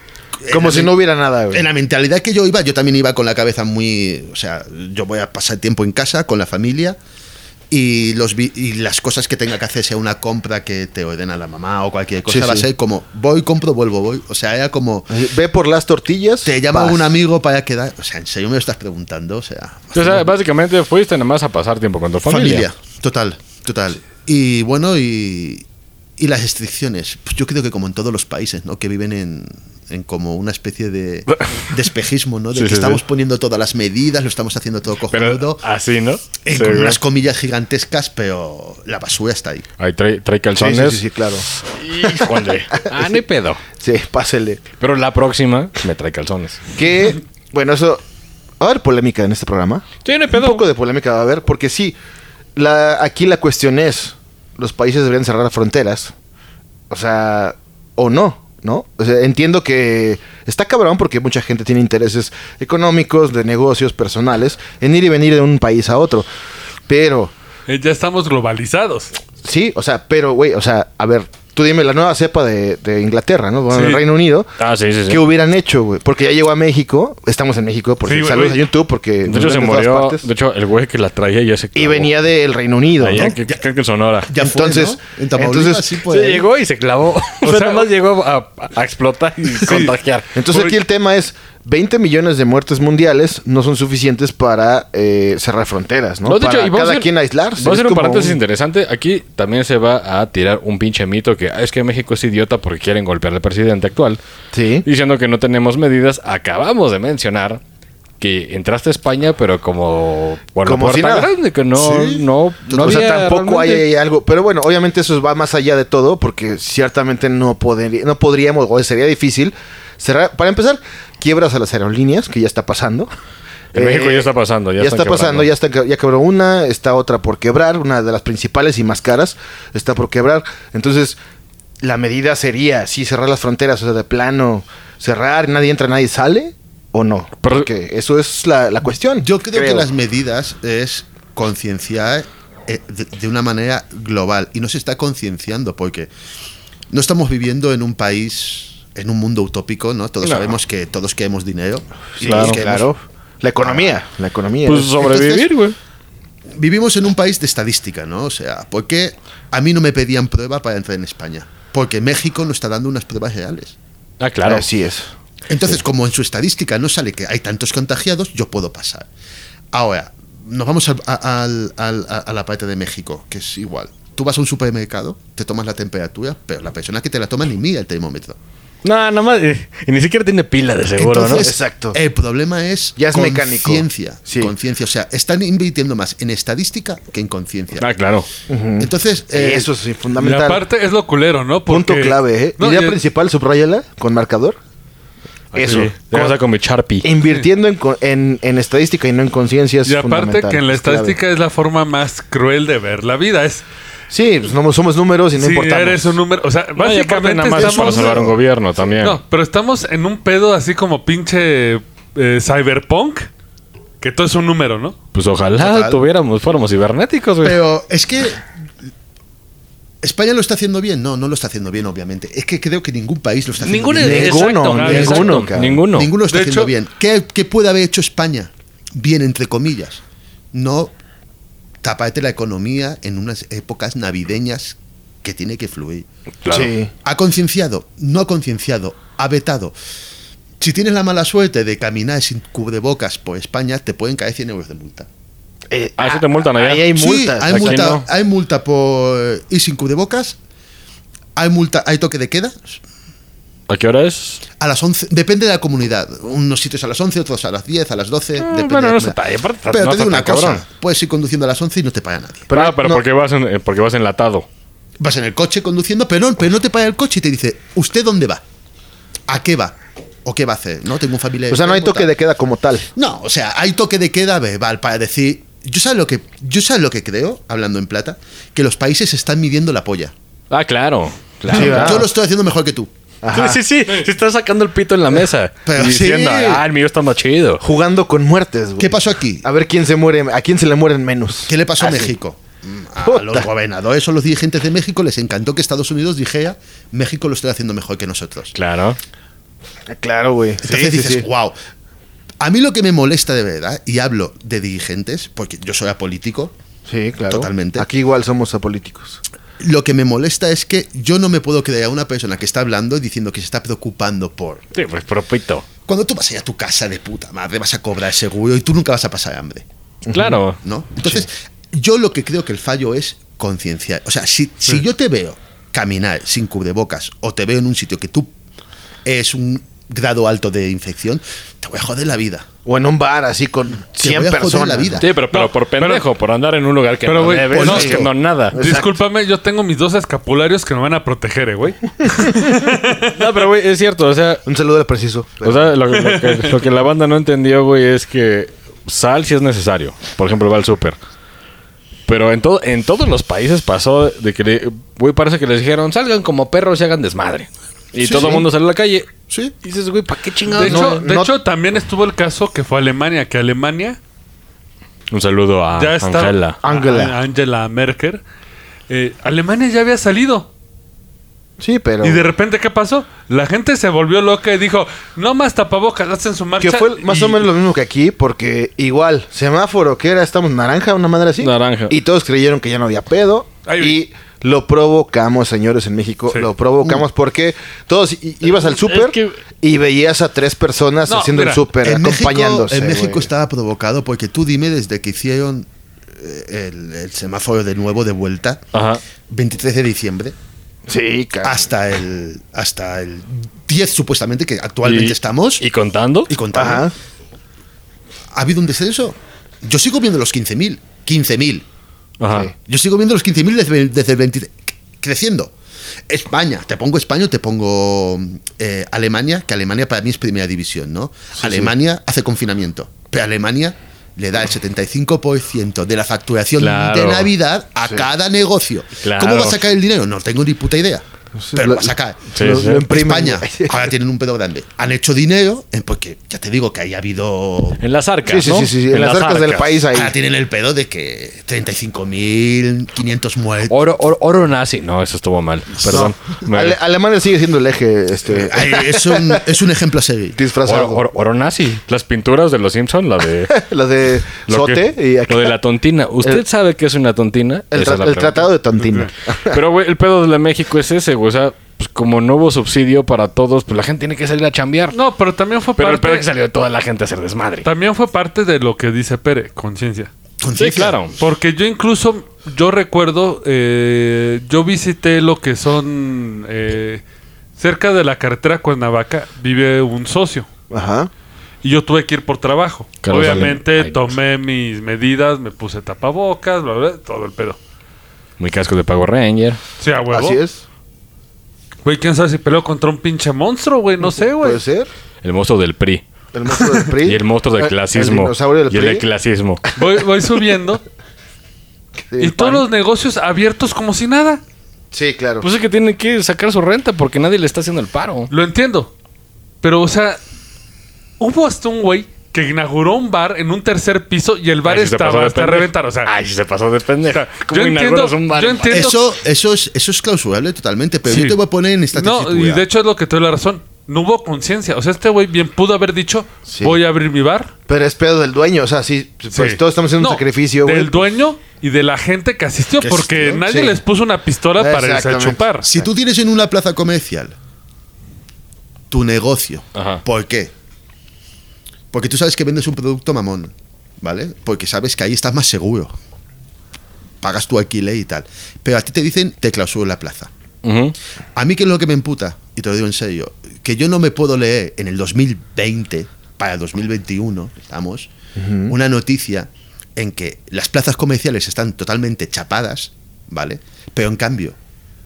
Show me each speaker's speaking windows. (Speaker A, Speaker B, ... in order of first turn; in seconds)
Speaker A: 0.4-0.9, 1.5-7.0, 7.7-15.1, 16.4-20.2, 22.3-25.6, 26.2-35.6, 36.4-39.7, 83.2-83.6, 84.2-86.5, 111.8-112.9, 139.2-146.1, 146.9-152.9, 153.6-153.9, 155.0-155.4, 156.6-163.8, 165.5-169.1, 169.7-178.4, 181.0-187.9, 188.8-189.7, 215.6-216.0, 217.4-218.4, 220.0-225.4, 225.9-230.0, 230.5-230.9, 231.8-236.1, 237.0-239.7, 240.6-245.1, 246.9-250.4, 251.3-252.8, 254.6-262.5, 265.0-268.4, 269.3-272.1, 272.9-280.1, 281.5-282.9, 285.6-286.6, 288.8-289.4, 291.5-298.5, 300.6-301.5, 302.4-306.5, 307.3-307.9, 309.6-314.6, 315.9-319.6, 320.6-328.3, 329.0-332.5, 334.0-335.1, 337.5-338.1, 358.0-358.4, 391.8-398.6, 399.3-400.4, 401.4-405.6, 406.3-406.9, 408.3-411.6, 412.6-415.5, 416.1-432.3, 432.8-437.8, 439.9-443.7, 448.3-450.4, 470.4-471.0, 518.7-522.6, 532.8-533.4, 535.6-537.3, 538.9-540.5, 541.9-545.9, 547.2-550.3, 551.4-558.1, 558.7-564.5
Speaker B: 0.5-1.7, 12.3-12.7, 15.1-17.1, 40.6-41.5, 42.0-43.2, 43.8-44.6, 46.7-48.0, 48.6-52.0, 52.5-56.1, 56.9-66.3, 66.9-67.3, 69.4-74.5, 75.1-80.3, 81.7-83.3, 84.4-86.1, 90.3-98.4, 104.5-104.8, 110.6-111.3, 112.7-123.1, 123.7-131.2, 131.8-139.9, 152.2-155.1, 164.4-165.1, 181.2-182.0, 183.0-184.5, 188.5-190.6, 191.7-194.6, 195.5-196.4, 197.0-201.2, 204.1-206.2, 207.6-208.3, 224.0-225.8, 236.5-236.9, 245.7-248.0, 262.5-263.0, 271.5-272.9, 281.5-282.1, 283.2-283.6, 287.6-292.1, 293.0-293.5, 299.9-301.3, 306.9-309.2, 320.1-320.4, 332.6-335.0, 337.6-339.0, 344.4-345.8, 358.0-358.4, 360.5-361.3, 366.6-367.1, 371.6-372.2, 376.6-393.3, 400.9-401.7, 406.5-406.9, 421.4-421.7, 431.4-433.9, 438.2-440.1, 445.9-449.5, 450.3-451.0, 453.5-455.6, 457.7-459.6, 480.7-481.1, 490.1-490.6, 494.4-494.9, 496.3-499.1, 502.1-502.7, 504.9-505.5, 526.5-526.8, 527.7-531.0, 533.4-533.8, 534.6-535.8, 558.4-558.7
Speaker C: 19.9-22.7, 32.5-33.0, 35.1-37.0, 39.8-43.6, 44.8-46.6, 50.0-50.6, 74.6-75.2, 79.2-82.2, 83.0-84.3, 86.1-90.3, 96.2-104.2, 104.8-107.6, 108.2-113.8, 123.7-125.5, 137.4-137.7, 150.2-150.6, 152.2-152.6, 154.7-155.8, 164.2-164.7, 178.8-181.5, 187.8-188.3, 195.5-197.1, 206.8-209.2, 215.1-217.6, 223.6-226.1, 236.4-236.7, 246.0-248.0, 253.7-254.4, 258.4-260.6, 262.5-264.5, 280.5-282.0, 283.3-287.6, 298.5-299.0, 314.7-315.6, 320.1-320.6, 335.0-338.6, 343.1-344.4, 345.4-351.0, 352.1-359.1, 359.6-361.0, 365.1-366.6, 381.4-381.9, 388.4-389.4, 398.7-399.0, 404.8-406.3, 412.2-412.5, 426.6-427.3, 429.0-429.6, 432.3-432.8, 437.8-439.8, 443.7-446.8, 450.6-453.6, 454.5-458.5, 459.4-464.9, 465.8-467.7, 470.6-471.1, 483.0-484.1, 488.4-489.6, 495.2-496.0, 497.0-499.6, 505.4-508.3, 514.6-518.9, 539.7-540.0, 550.6-550.9
Speaker D: 67.7-69.1, 73.7-74.0, 78.0-78.6, 87.4-87.9, 89.6-89.9, 90.5-90.8, 190.2-193.0, 199.8-203.6, 205.4-208.2, 209.0-213.3, 214.0-214.9, 224.3-225.4, 226.3-226.7, 335.3-336.0, 337.1-338.0, 338.5-343.1, 345.9-346.6, 360.5-364.0, 365.8-368.2, 368.9-370.5, 372.0-377.4, 383.6-384.0, 391.1-391.7, 464.9-466.3, 467.6-470.1, 471.2-477.0, 477.6-480.5, 481.6-487.6, 489.8-490.4, 491.8-494.6, 496.6-496.8, 499.8-500.8, 502.2-504.4, 508.3-508.9, 509.6-510.2, 511.2-516.1, 517.1-519.0, 521.1-521.4, 521.9-527.5, 529.3-535.7